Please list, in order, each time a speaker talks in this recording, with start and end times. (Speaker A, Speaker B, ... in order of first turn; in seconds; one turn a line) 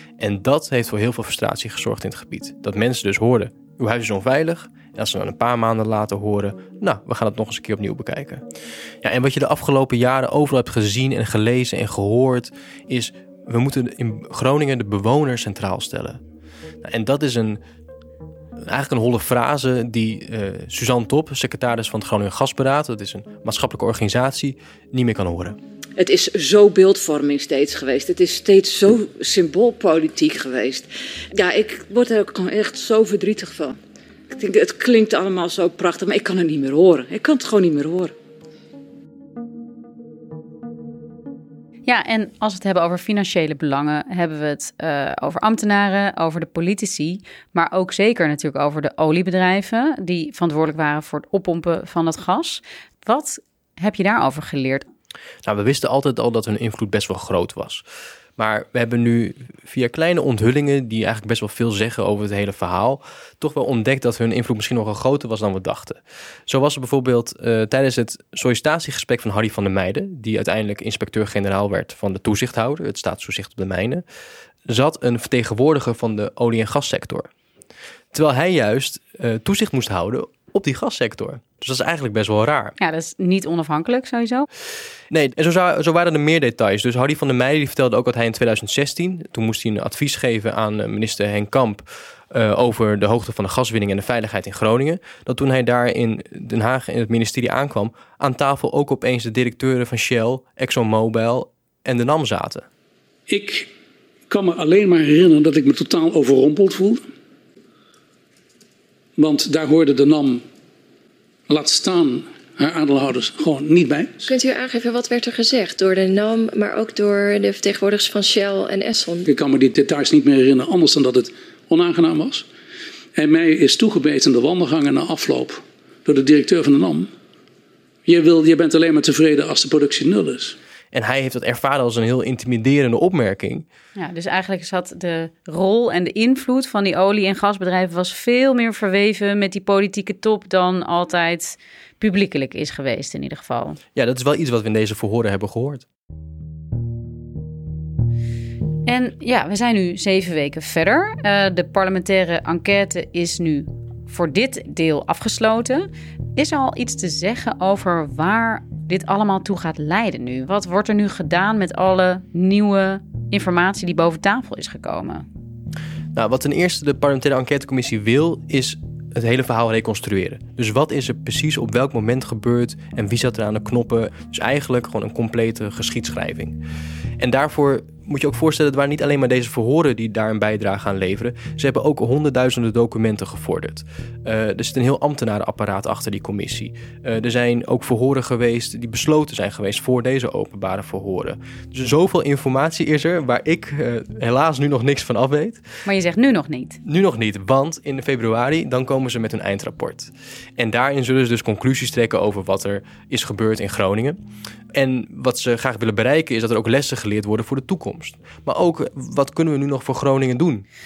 Speaker A: 0.2-8.4
Speaker A: 9.0-16.2
Speaker A: 16.8-17.6
Speaker A: 18.7-25.6
Speaker B: 26.0-33.8
Speaker B: 34.3-38.1
Speaker C: 41.9-54.9
Speaker A: 55.4-57.8
Speaker A: 58.4-74.0
Speaker A: 74.7-77.3
Speaker A: 78.1-82.8
Speaker C: 82.8-84.5
Speaker A: 85.1-102.7
Speaker D: 103.3-103.7
Speaker D: 104.3-107.0
Speaker D: 109.2-110.4
Speaker D: 111.5-114.3
Speaker E: 114.2-119.3
Speaker D: 119.2-122.4
Speaker D: 123.2-127.1
Speaker D: 128.1-130.5
Speaker A: 130.9-133.6
Speaker C: 133.9-143.8
Speaker A: 143.9-145.8
Speaker C: 148.9-165.2
Speaker A: 166.1-176.6
Speaker A: 177.2-195.6
Speaker C: 195.8-196.8
Speaker A: 196.8-204.2
Speaker A: 204.7-210.6